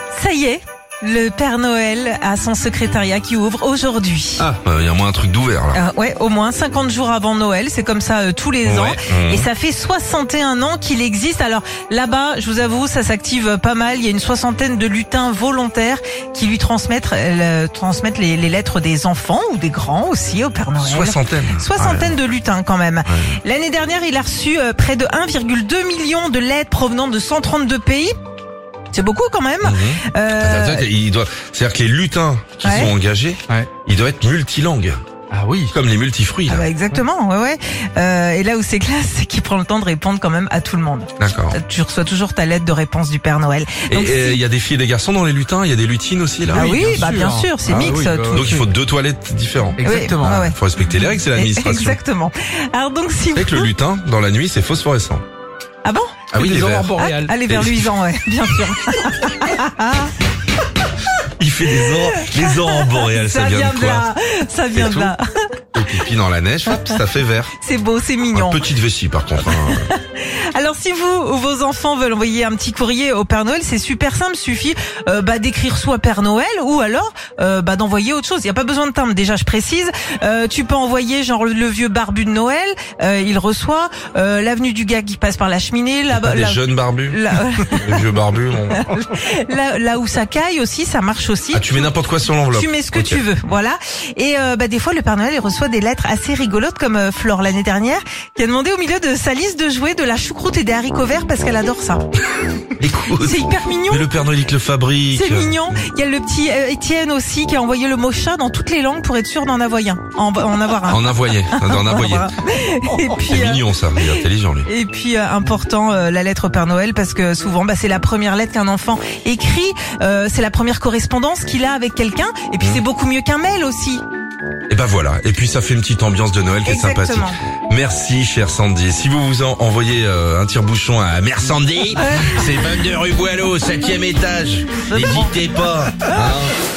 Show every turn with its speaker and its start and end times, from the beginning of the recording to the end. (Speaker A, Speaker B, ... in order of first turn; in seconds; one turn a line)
Speaker A: 0.1-4.5
Speaker B: 4.4-5.8
Speaker A: 5.7-28.1
Speaker B: 8.6-9.5
Speaker B: 20.8-22.1
Speaker B: 23.1-23.4
Speaker A: 28.9-30.9
Speaker B: 29.6-35.0
Speaker A: 32.6-32.9
Speaker C: 35.3-35.7
Speaker B: 35.7-36.7
Speaker A: 36.5-44.4
Speaker B: 41.2-41.6
Speaker B: 43.9-46.8
Speaker C: 46.5-48.7
Speaker A: 46.5-48.5
Speaker B: 47.7-52.0
Speaker C: 49.8-50.4
Speaker A: 49.8-50.6
Speaker A: 51.3-53.7
Speaker B: 53.4-55.2
Speaker A: 55.8-56.2
Speaker C: 56.3-57.3
Speaker B: 56.3-57.9
Speaker A: 57.0-60.1
Speaker B: 61.4-64.1
Speaker A: 61.8-65.2
Speaker B: 64.7-65.1
Speaker B: 65.7-67.5
Speaker A: 66.7-67.0
Speaker A: 67.6-68.6
Speaker B: 68.3-69.9
Speaker A: 69.5-88.0
Speaker B: 86.1-87.2
Speaker B: 87.7-89.0
Speaker A: 88.7-91.7
Speaker B: 91.5-93.2
Speaker A: 92.5-102.1
Speaker B: 102.8-105.6
Speaker A: 103.2-104.0
Speaker A: 105.1-124.0
Speaker B: 110.8-112.3
Speaker B: 112.8-114.7
Speaker B: 124.7-136.5
Speaker A: 126.6-127.4
Speaker A: 132.0-132.7
Speaker A: 134.9-135.3
Speaker A: 136.1-136.3